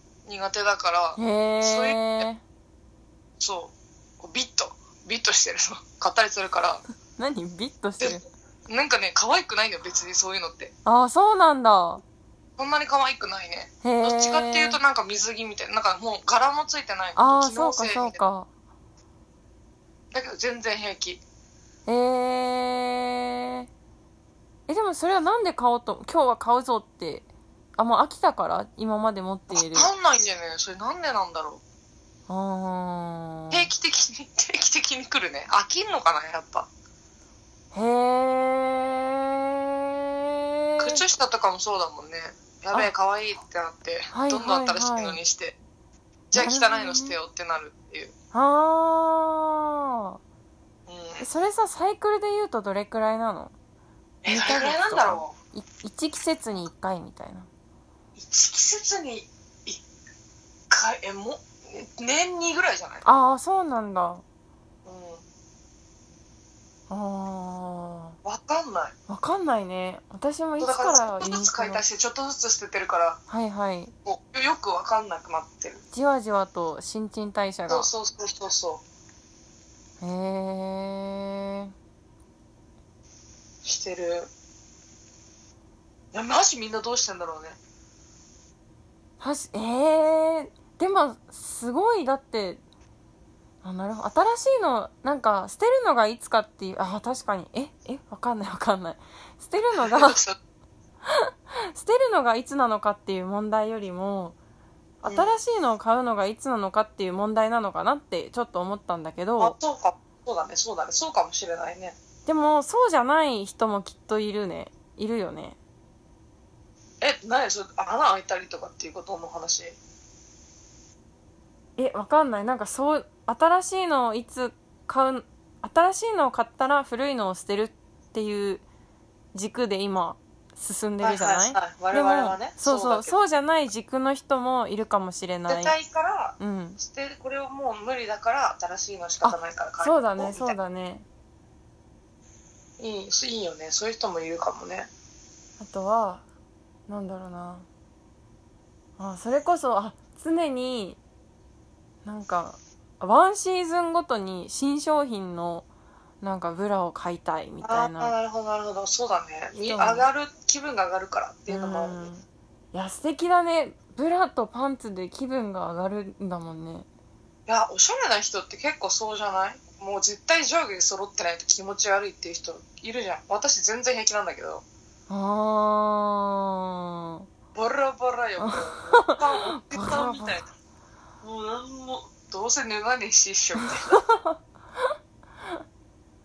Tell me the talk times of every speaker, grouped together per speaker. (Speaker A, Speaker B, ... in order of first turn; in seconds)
Speaker A: 0.3-2.3, 3.4-6.8, 8.0-10.7, 12.6-18.2, 20.1-21.2, 29.5-31.6, 33.5-36.7, 40.8-45.6, 46.3-48.1, 50.9-51.2, 54.2-55.4, 58.2-59.8, 60.7-63.0, 64.8-65.2, 68.2-68.9, 70.6-73.2, 74.1-75.8, 77.7-78.8, 83.6-84.3, 86.1-87.6, 99.8-100.4, 105.1-105.4, 109.4-112.0, 117.0-119.8, 131.0-133.2, 135.5-140.6, 142.8-144.9, 157.6-162.1, 167.5-174.6, 177.6-180.5, 181.2-184.0
Speaker B: 1.2-2.4, 7.2-8.2, 10.9-12.0, 13.8-14.8, 17.2-18.5, 21.9-23.7, 24.7-29.9, 32.3-33.7, 37.7-41.0, 44.1-45.2, 46.4-47.2, 48.3-50.2, 51.2-53.5, 54.3-57.5, 63.0-64.2, 66.9-68.2, 69.1-71.8, 73.3-73.9, 75.9-77.9, 80.0-81.7, 89.2-92.6, 93.6-100.2, 101.1-104.4, 105.0-109.6, 112.3-115.6, 121.8-128.6, 129.3-135.8, 136.4-136.8, 139.2-141.1, 145.6-146.2, 146.9-147.7, 149.0-151.0, 152.1-155.7, 156.2-158.2, 159.6-160.1, 161.5-166.9, 175.1-177.3, 178.4-180.4, 183.9-184.4